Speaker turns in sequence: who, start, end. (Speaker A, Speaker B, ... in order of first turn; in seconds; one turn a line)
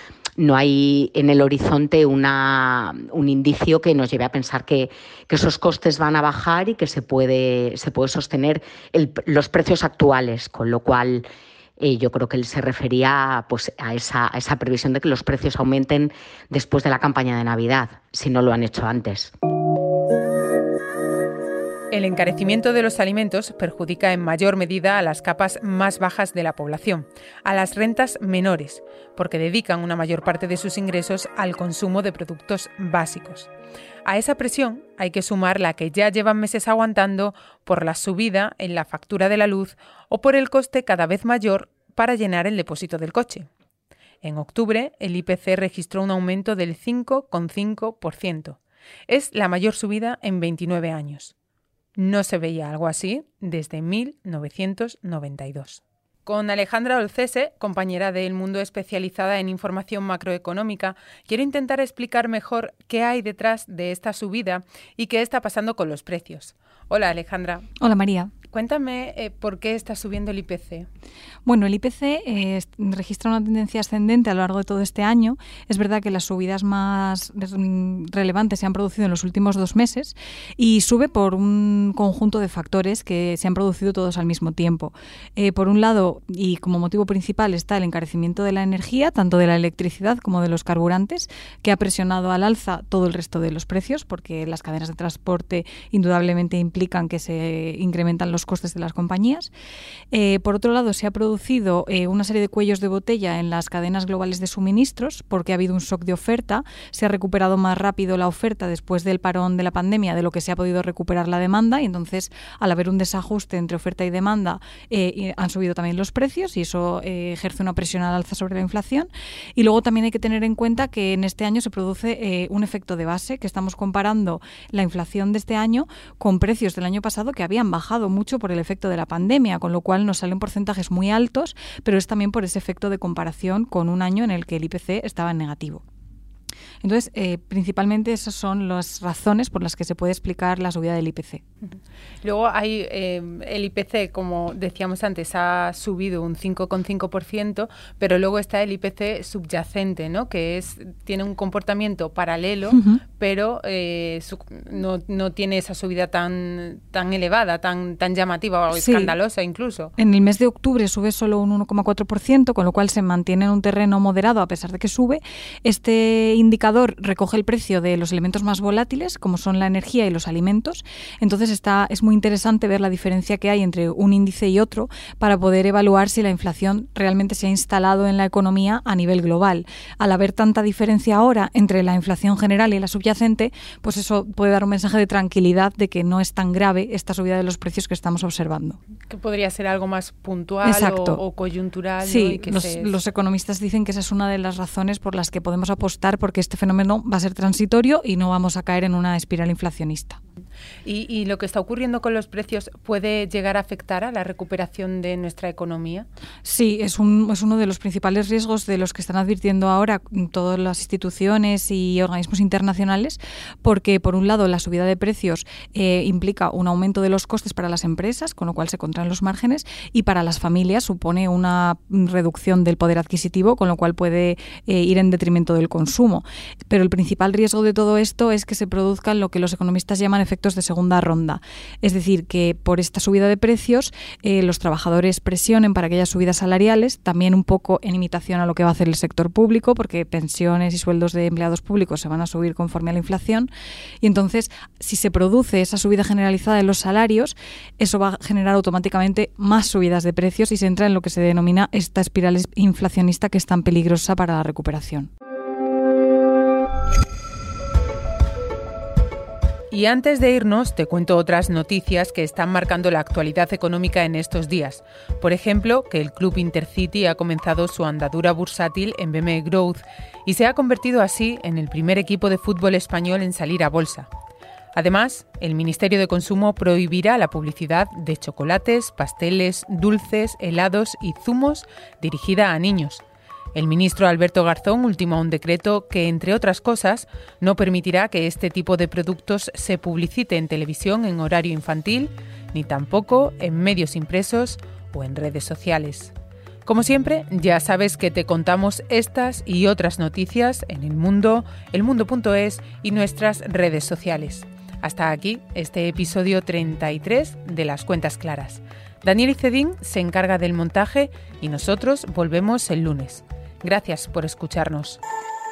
Speaker A: 0.4-11.2
Speaker A: 11.8-19.3
Speaker B: 21.9-33.5
Speaker B: 34.0-43.5
Speaker B: 44.2-51.3
Speaker B: 52.0-67.7
Speaker C: 67.8-68.3
Speaker B: 68.5-70.9
Speaker C: 71.4-99.5
Speaker C: 100.1-135.8
Speaker C: 136.8-141.4
Speaker B: 141.7-159.9
Speaker C: 152.7-153.0
Speaker C: 158.7-159.1
Speaker C: 160.0-188.8
Speaker B: 189.1-192.9
Speaker C: 190.6-191.2
Speaker C: 192.0-200.2
Speaker B: 200.8-206.1
Speaker C: 206.4-243.5
Speaker C: 244.0-255.1
Speaker B: 259.7-274.1
Speaker B: 274.7-283.0
Speaker B: 283.5-296.1
Speaker B: 296.6-315.0